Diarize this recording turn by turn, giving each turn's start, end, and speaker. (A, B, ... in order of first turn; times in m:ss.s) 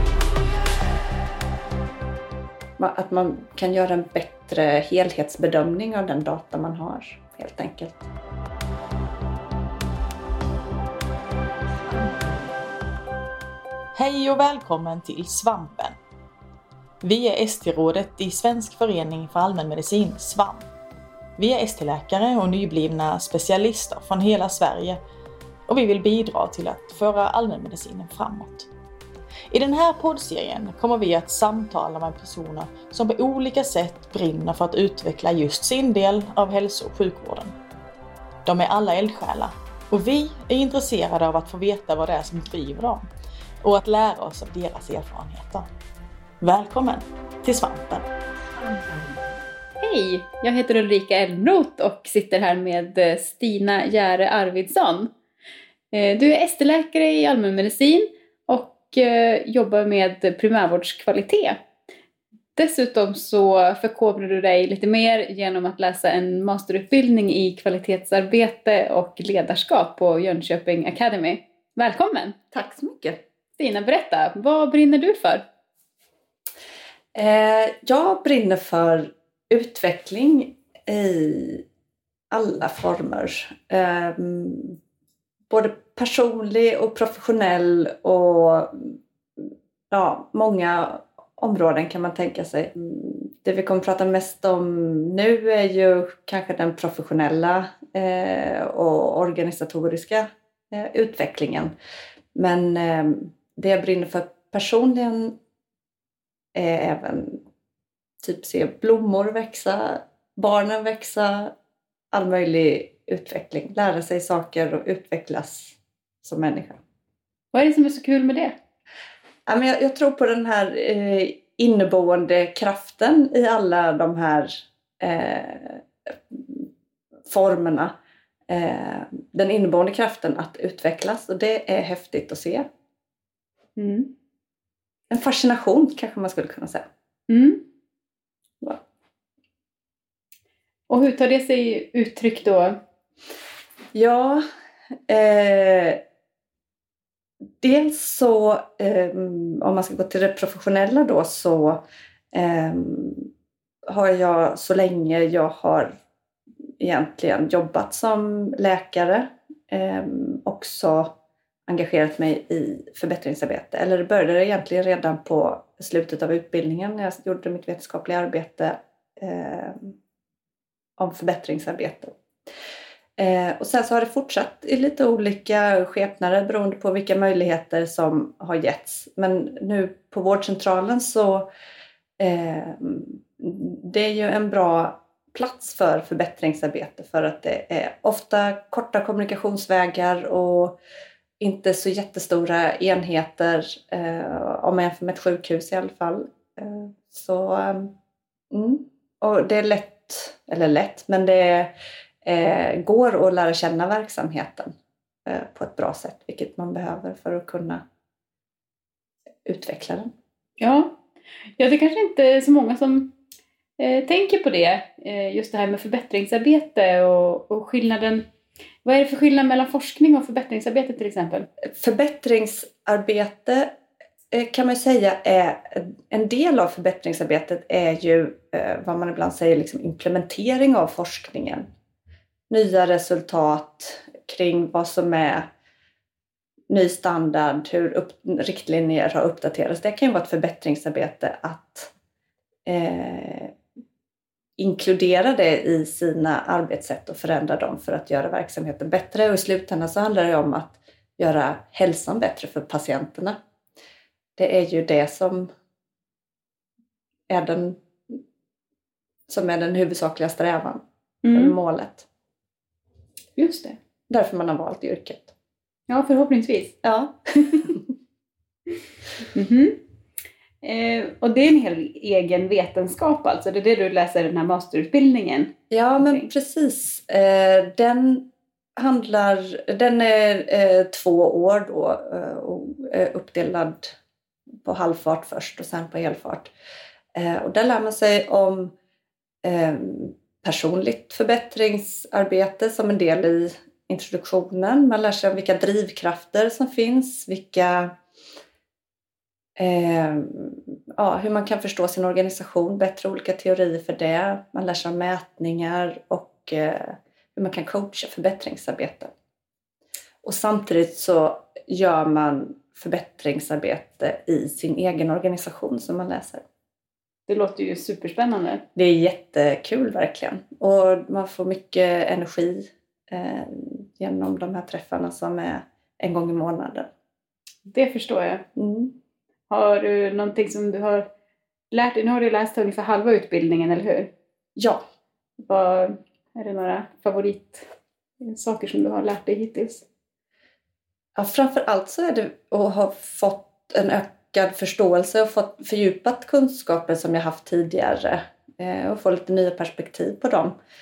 0:02.8-0:08.1 A
0:14.0-0:16.0 B
0:17.0-0:20.6 B
0:21.4-0:25.0 B
0:25.7-0:28.7 B
0:29.5-0:37.5 B
0:38.5-0:43.1 B
0:43.6-0:45.7 B
0:46.4-0:48.0 B
0:49.8-0:55.1 C
0:55.9-1:01.6 C
1:02.6-1:12.4 C
1:12.5-1:13.2 A
1:13.6-1:15.4 C
1:17.2-1:21.6 A
1:22.3-1:24.8 A
1:25.5-1:41.7 A
1:42.4-1:45.4 A
1:46.5-1:47.4 A
1:48.2-1:51.5 A
1:52.1-1:56.8 A
1:57.5-1:58.5 C
1:59.5-2:06.7 A
2:07.3-2:07.9 A
2:08.5-2:12.7 A
2:13.8-2:14.1 C
2:15.1-2:16.9 A
2:17.3-2:17.6 C
2:20.9-2:22.8 C
2:23.9-2:24.4 A
2:25.1-2:26.0 A
2:27.6-2:33.3 A
2:33.9-2:35.9 A
2:36.8-2:41.2 A
2:41.7-2:50.0 A
2:51.0-2:52.2 A
2:53.2-3:01.5 A
3:02.2-3:10.8 A
3:11.4-3:17.9 A
3:18.5-3:21.7 A
3:22.2-3:24.7 A
3:25.3-3:27.8 A
3:29.4-3:30.1 A
3:30.6-3:31.0 C
3:31.6-3:33.2 C
3:33.8-3:38.3 C
3:38.8-3:41.5 C
3:41.7-3:43.7 A
3:44.3-3:51.7 A
3:52.5-3:55.5 A
3:56.7-4:01.9 A
4:02.7-4:03.5 A
4:04.6-4:13.4 A
4:14.4-4:15.5 A
4:17.3-4:18.2 A
4:19.3-4:22.1 A
4:21.2-4:21.6 C
4:23.4-4:23.8 C
4:24.1-4:25.3 A
4:25.9-4:26.8 C
4:26.8-4:27.8 A
4:27.4-4:27.7 C
4:29.3-4:29.8 C
4:30.6-4:36.3 C
4:35.7-4:44.0 A
4:44.6-4:46.5 A
4:47.2-4:48.7 A
4:49.4-4:57.9 A
4:59.6-5:09.1 A
5:10.2-5:16.4 A
5:17.3-5:18.7 C
5:18.8-5:26.9 A
5:27.7-5:28.5 C
5:28.6-5:28.9 A
5:29.5-5:31.1 C
5:31.7-5:34.1 C
5:34.6-5:34.8 A
5:35.4-5:37.7 C
5:38.2-5:39.9 C
5:41.2-5:50.6 A